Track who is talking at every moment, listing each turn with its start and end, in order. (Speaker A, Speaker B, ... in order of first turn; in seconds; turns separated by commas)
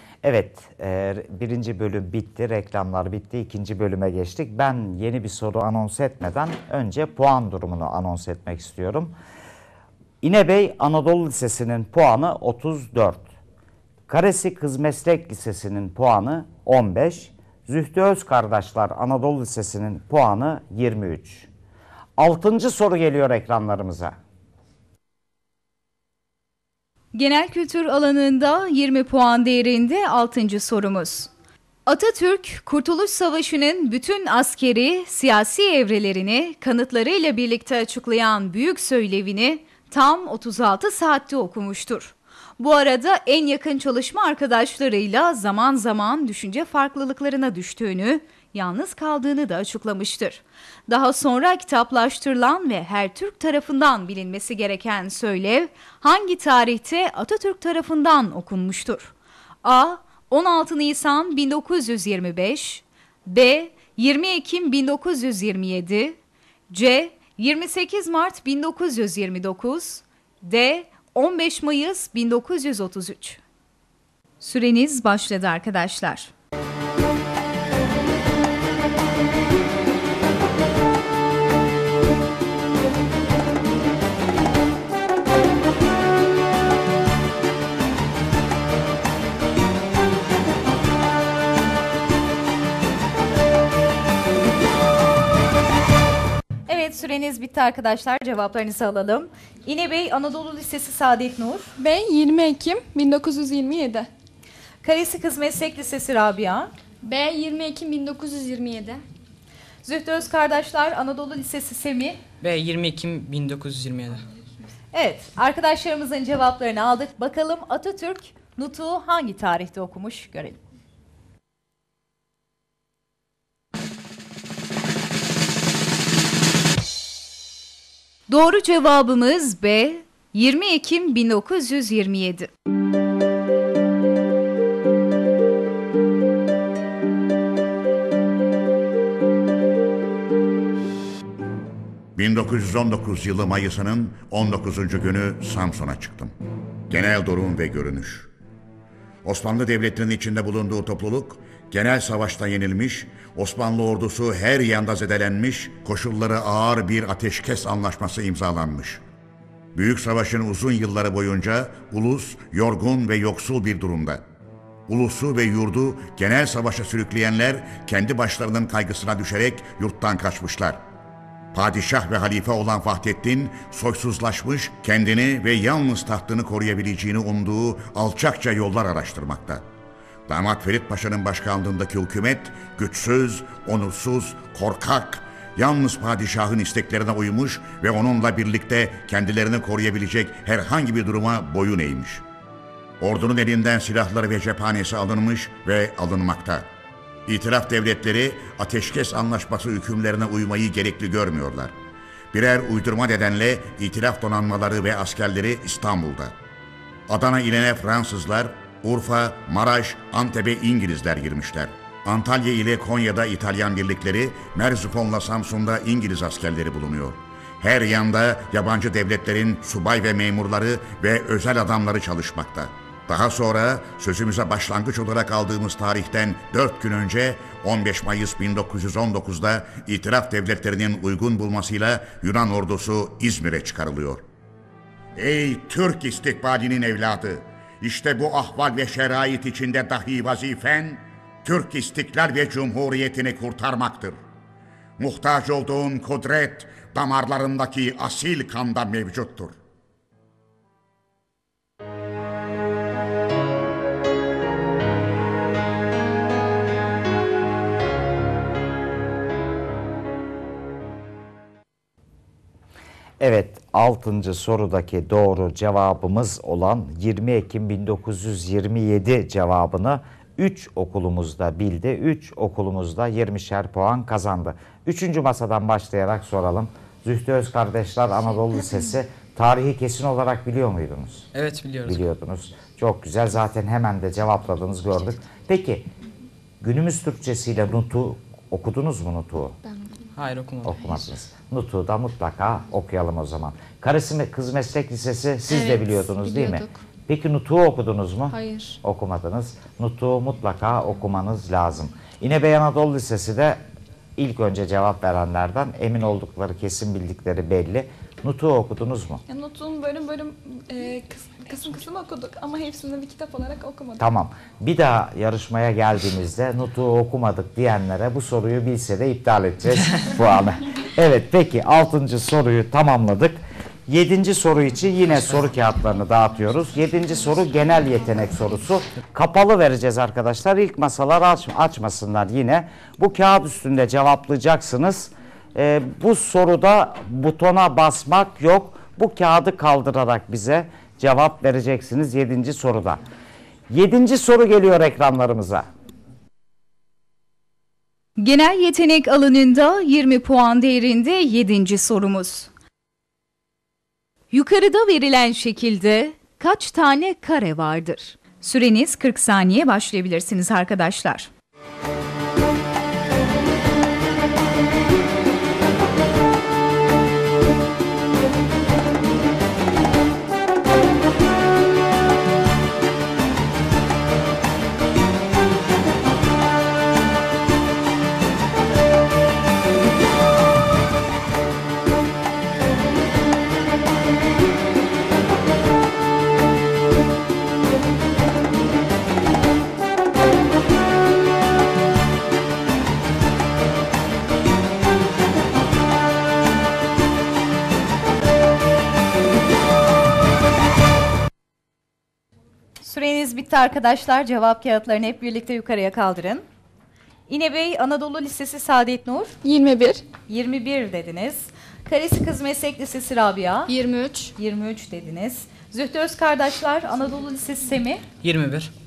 Speaker A: 0.2-9.1, Speaker A: 10.2-13.3, Speaker A: 14.1-21.5, Speaker A: 22.2-24.1, Speaker B: 27.1-31.3, Speaker B: 31.9-59.1, Speaker B: 59.6-66.2, Speaker B: 66.7-73.4, Speaker B: 74.4-76.3, Speaker B: 96.7-101.7, Speaker C: 101.8-104.1, Speaker B: 104.8-106.7, Speaker C: 107.0-109.0, Speaker B: 109.8-112.2, Speaker D: 112.4-114.2, Speaker B: 114.9-120.6, Speaker B: 128.3-132.5, Speaker E: 142.2-146.3, Speaker E: 146.9-148.3, Speaker E: 149.2-159.0, Speaker E: 159.8-164.2, Speaker E: 164.9-170.8, Speaker E: 171.5-179.6, Speaker E: 180.3-192.2, Speaker E: 193.0-196.7, Speaker E: 197.3-201.7, Speaker E: 202.3-206.3, Speaker E: 207.1-234.2, Speaker E: 235.2-244.2, Speaker E: 245.0-249.6, Speaker A: 263.2-281.2, Speaker D: 281.3-282.1, Speaker A: 281.9-285.9, Speaker A: 286.6-289.6, Speaker D: 290.1-291.0, Speaker A: 290.6-303.6, Speaker C: 295.6-296.8, Speaker C: 298.3-298.8, Speaker A: 304.2-309.2, Speaker C: 309.3-314.1, Speaker A: 314.0-343.0, Speaker A: 343.7-345.7, Speaker B: 348.2-352.5, Speaker B: 354.3-361.3, Speaker B: 402.8-406.4, Speaker B: 407.3-409.4, Speaker C: 409.4-410.0, Speaker B: 410.3-413.8, Speaker C: 413.7-414.3, Speaker B: 414.4-418.0, Speaker D: 418.2-418.7